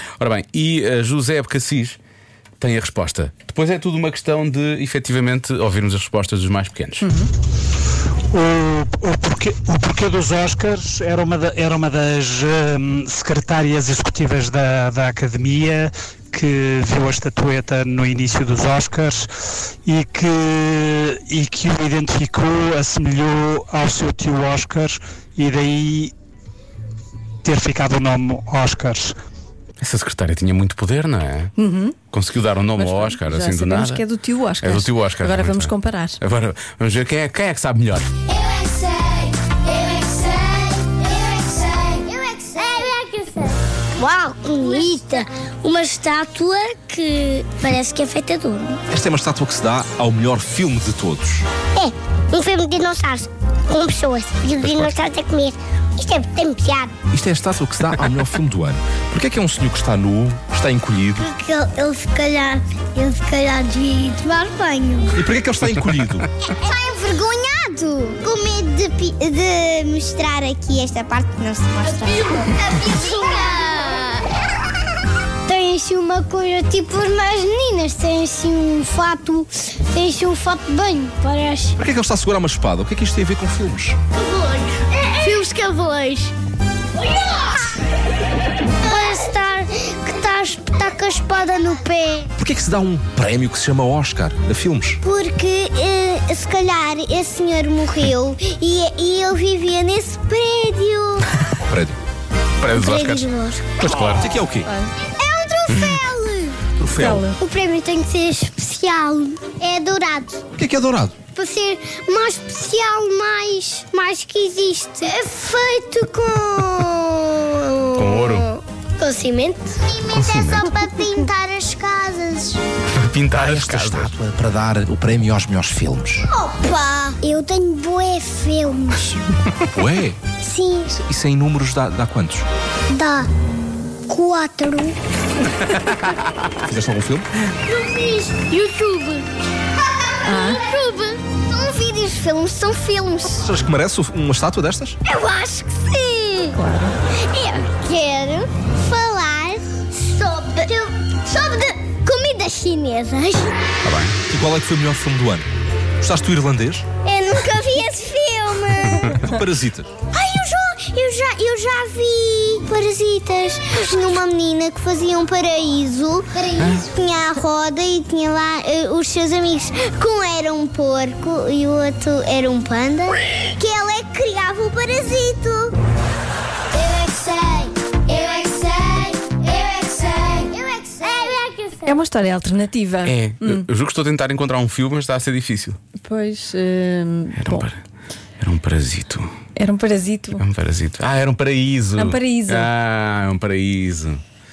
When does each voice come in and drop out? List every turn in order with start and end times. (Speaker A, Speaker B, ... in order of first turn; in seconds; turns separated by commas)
Speaker A: 0.2-2.0, Speaker A: 2.6-7.1, Speaker B: 7.0-7.3, Speaker C: 8.3-19.3, Speaker C: 19.9-26.1, Speaker C: 27.4-29.2, Speaker A: 29.8-31.5, Speaker B: 31.6-32.0, Speaker A: 32.1-34.0, Speaker B: 32.8-36.2, Speaker A: 34.6-38.1, Speaker D: 38.3-48.8, Speaker E: 48.9-51.5, Speaker D: 51.8-56.9, Speaker A: 54.6-54.9, Speaker E: 57.1-61.3, Speaker D: 61.2-65.2, Speaker E: 65.2-66.3, Speaker D: 66.5-74.3, Speaker D: 75.5-81.8, Speaker E: 81.8-84.0, Speaker D: 84.2-86.3, Speaker D: 88.8-92.3, Speaker E: 92.4-95.0, Speaker D: 95.0-101.3, Speaker E: 101.7-102.0, Speaker A: 102.6-103.3, Speaker D: 102.7-103.7, Speaker A: 103.8-104.4, Speaker E: 104.0-104.7, Speaker B: 104.7-104.9, Speaker D: 105.0-106.6, Speaker E: 106.8-107.3, Speaker B: 107.0-107.4, Speaker D: 107.3-110.4, Speaker E: 110.6-111.2, Speaker D: 111.3-122.6, Speaker A: 118.0-118.5, Speaker A: 120.1-120.8, Speaker A: 123.0-124.1, Speaker E: 123.4-126.3, Speaker D: 126.3-129.2, Speaker E: 129.7-130.2, Speaker D: 130.4-130.9, Speaker E: 130.9-132.5, Speaker D: 132.9-133.3, Speaker D: 134.1-135.0, Speaker E: 136.6-137.3, Speaker D: 137.7-139.2, Speaker D: 140.1-143.4, Speaker B: 140.2-140.6, Speaker E: 143.4-145.0, Speaker D: 145.1-146.6, Speaker B: 146.5-147.0, Speaker D: 147.2-153.7, Speaker A: 153.8-154.2, Speaker E: 154.3-155.5, Speaker E: 156.0-156.9, Speaker D: 157.1-159.2, Speaker E: 159.2-159.9, Speaker D: 160.1-175.8, Speaker A: 166.6-166.9, Speaker D: 176.7-181.9, Speaker B: 181.8-183.7, Speaker A: 183.1-185.8, Speaker B: 186.0-187.7, Speaker A: 187.4-187.8, Speaker A: 188.4-189.3, Speaker B: 189.6-190.4, Speaker A: 190.4-194.2, Speaker B: 192.0-192.7